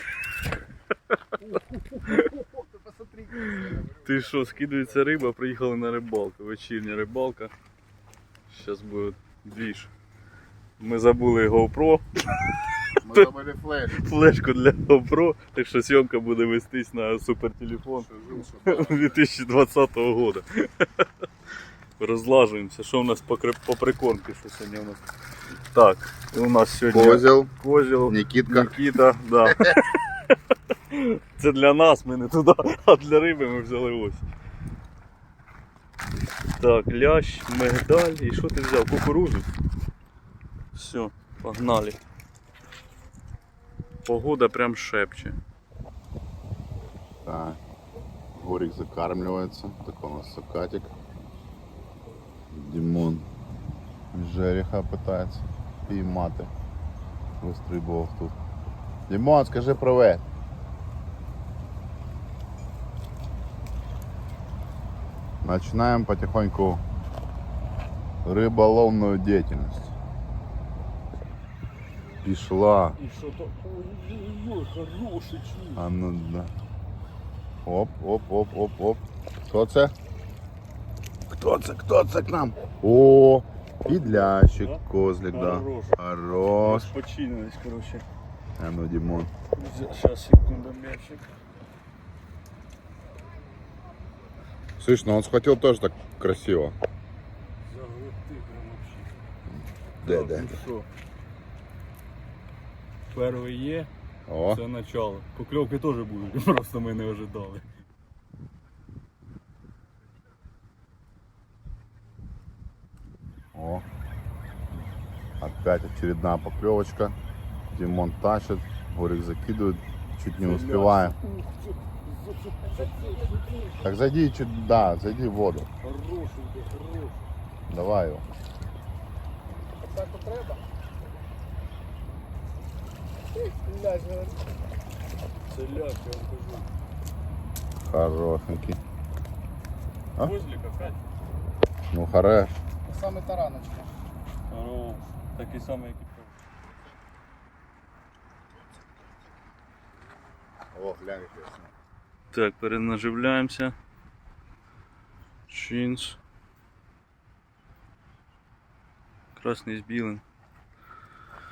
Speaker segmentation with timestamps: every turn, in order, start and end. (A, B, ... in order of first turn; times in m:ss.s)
0:01.4-0:03.8 A
0:03.4-0:07.5 B
0:08.5-0:09.9 B
0:10.8-0:12.0 B
0:13.0-0:14.0 C
0:13.9-0:21.1 B
0:18.0-0:19.2 C
0:22.0-0:25.0 B
0:25.7-0:30.3 B
0:26.9-0:27.5 C
0:28.1-0:28.8 C
0:30.9-0:34.2 B
0:36.6-0:39.5 B
0:40.7-0:42.0 B
0:44.0-0:45.4 B
0:47.2-0:47.6 C
0:48.3-0:50.9 C
0:52.5-0:53.3 C
0:54.1-0:56.5 C
0:57.4-0:58.4 C
0:59.1-1:00.2 C
1:05.4-1:06.8 C
1:08.2-1:09.9 C
1:12.2-1:13.0 C
1:13.0-1:15.8 B
1:15.7-1:16.5 C
1:17.6-1:19.9 C
1:21.3-1:26.9 C
1:23.8-1:26.0 B
1:26.6-1:28.0 B
1:28.6-1:29.3 C
1:29.5-1:31.2 B
1:34.8-1:36.8 C
1:37.7-1:39.1 B
1:40.0-1:40.6 C
1:40.0-1:40.9 B
1:43.1-1:43.9 B
1:44.3-1:44.6 C
1:44.5-1:47.6 B
1:53.5-1:53.8 C
1:55.4-1:57.2 C
1:57.7-2:01.2 C
2:00.4-2:03.2 B
2:02.7-2:03.3 A
2:03.8-2:05.7 C
2:05.8-2:07.2 B
2:07.7-2:08.2 C
2:09.8-2:10.6 A
2:13.3-2:14.4 A
2:15.5-2:16.7 B
2:17.8-2:18.8 C
2:20.2-2:21.0 B
2:21.9-2:22.6 C
2:22.8-2:23.9 A
2:24.5-2:26.3 B
2:30.7-2:31.7 C
2:32.3-2:33.7 B
2:35.5-2:36.2 B
2:39.4-2:40.2 B